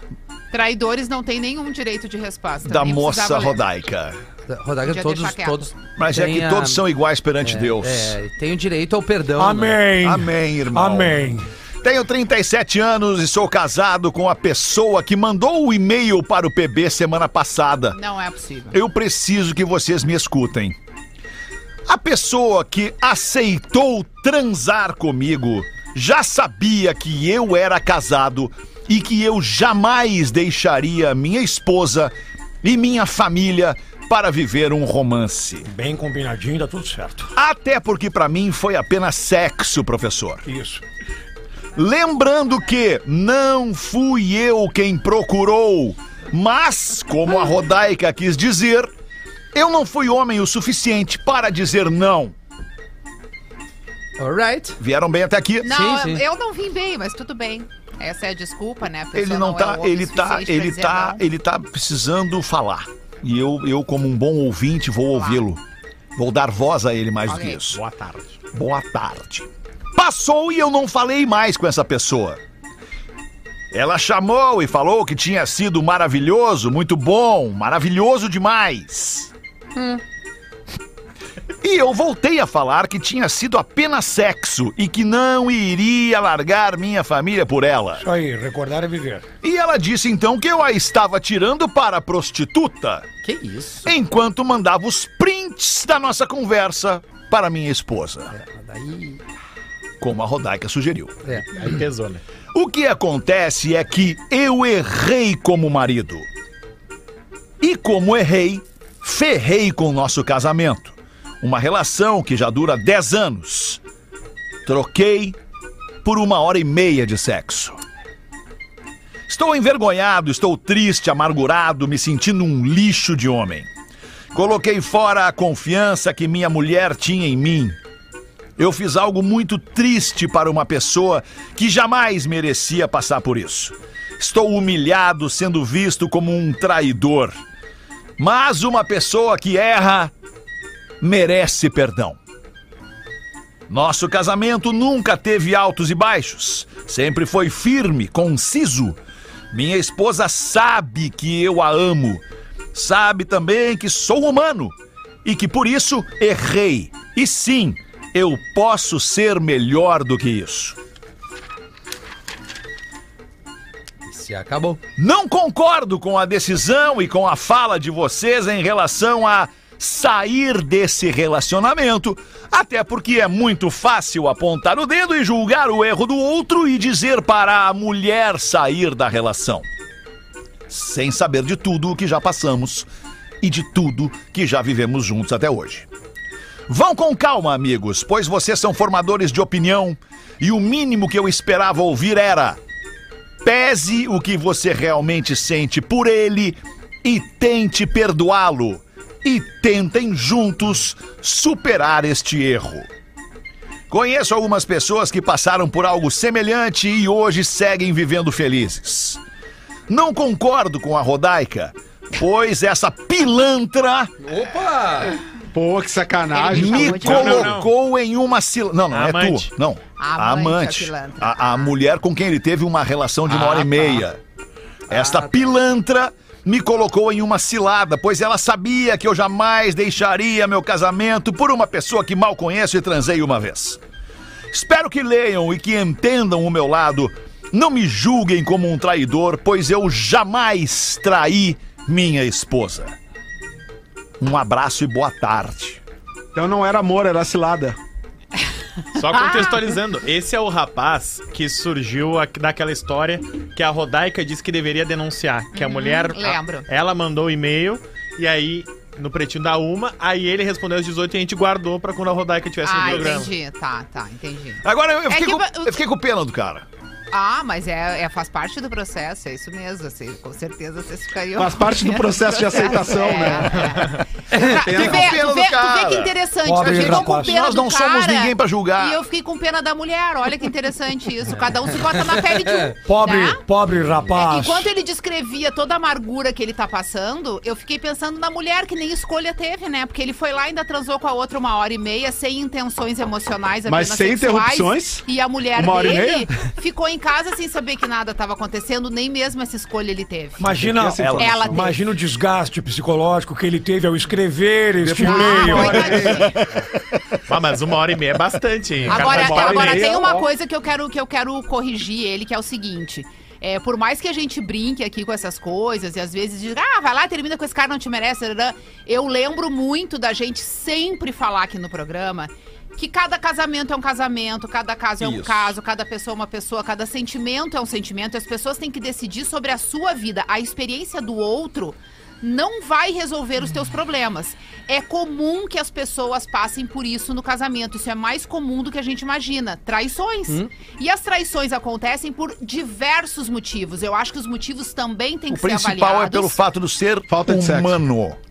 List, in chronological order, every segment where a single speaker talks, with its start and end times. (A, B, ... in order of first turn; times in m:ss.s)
0:00.5-0:03.6 A
0:02.6-0:04.2 B
0:04.5-0:06.8 C
0:04.8-0:05.7 A
0:06.0-0:08.2 B
0:07.4-0:09.8 C
0:09.4-0:11.5 D
0:10.0-0:18.0 B
0:17.9-0:18.8 A
0:18.7-0:20.8 B
0:21.9-0:35.7 B
0:35.7-0:37.3 D
0:37.4-0:40.5 B
0:40.5-0:40.8 D
0:41.8-0:48.9 B
0:49.5-0:52.3 B
0:54.2-0:54.8 C
0:54.8-0:55.8 B
0:55.6-1:01.2 A
0:55.6-0:56.2 C
0:59.1-1:05.6 B
1:05.2-1:05.4 A
1:06.2-1:07.8 B
1:07.3-1:07.6 A
1:07.8-1:08.2 E
1:08.5-1:12.4 B
1:13.7-1:19.3 B
1:19.8-1:20.0 C
1:21.6-1:28.0 B
1:28.0-1:29.3 D
1:29.4-1:33.1 B
1:33.2-1:33.9 C
1:33.8-1:38.3 B
1:38.3-1:39.2 C
1:40.0-1:41.4 B
1:41.2-1:41.8 C
1:41.5-1:42.2 E
1:42.5-1:46.3 B
1:47.6-1:53.8 B
1:54.7-1:55.4 B
1:56.0-1:57.8 B
1:59.3-2:03.7 B
2:04.3-2:07.8 B
2:08.6-2:17.4 B
2:18.2-2:20.1 B
2:21.0-2:22.2 B
2:23.7-2:29.0 B
2:29.5-2:40.8 B
2:44.1-2:44.8 C
2:45.0-2:59.7 B
3:00.7-3:02.9 B
3:03.4-3:05.9 B
3:06.7-3:12.6 B
3:13.4-3:22.9 B
3:23.9-3:29.2 B
3:29.9-3:34.1 B
3:34.2-3:35.2 C
3:35.5-3:37.1 F
3:36.3-3:37.5 A
3:36.5-3:44.2 B
3:37.0-3:37.7 E
3:38.9-3:39.5 E
3:40.0-3:41.7 A
3:43.3-3:44.0 C
3:44.9-3:45.6 C
3:44.9-3:53.8 B
3:54.5-4:03.0 B
4:04.2-4:05.8 B
4:06.4-4:07.8 F
4:09.0-4:23.4 E
4:15.5-4:16.7 A
4:22.6-4:25.8 A
4:24.6-4:26.7 B
4:27.1-4:43.4 A
4:31.4-4:33.7 F
4:34.5-4:35.1 F
4:34.6-4:39.0 B
4:36.4-4:37.3 D
4:42.0-4:42.7 C
4:42.8-4:44.7 D
4:44.1-5:00.5 A
4:53.7-4:56.3 F
5:00.4-5:06.2 D
5:00.6-5:01.6 F
5:01.0-5:01.4 B
5:01.2-5:01.8 A
5:04.8-5:06.4 F
5:05.0-5:06.4 A
5:06.1-5:07.0 B
5:07.3-5:10.1 E
5:08.9-5:46.4 A
5:08.9-5:10.3 F
5:25.0-5:25.6 B
5:45.3-5:48.2 B
5:47.1-5:47.8 F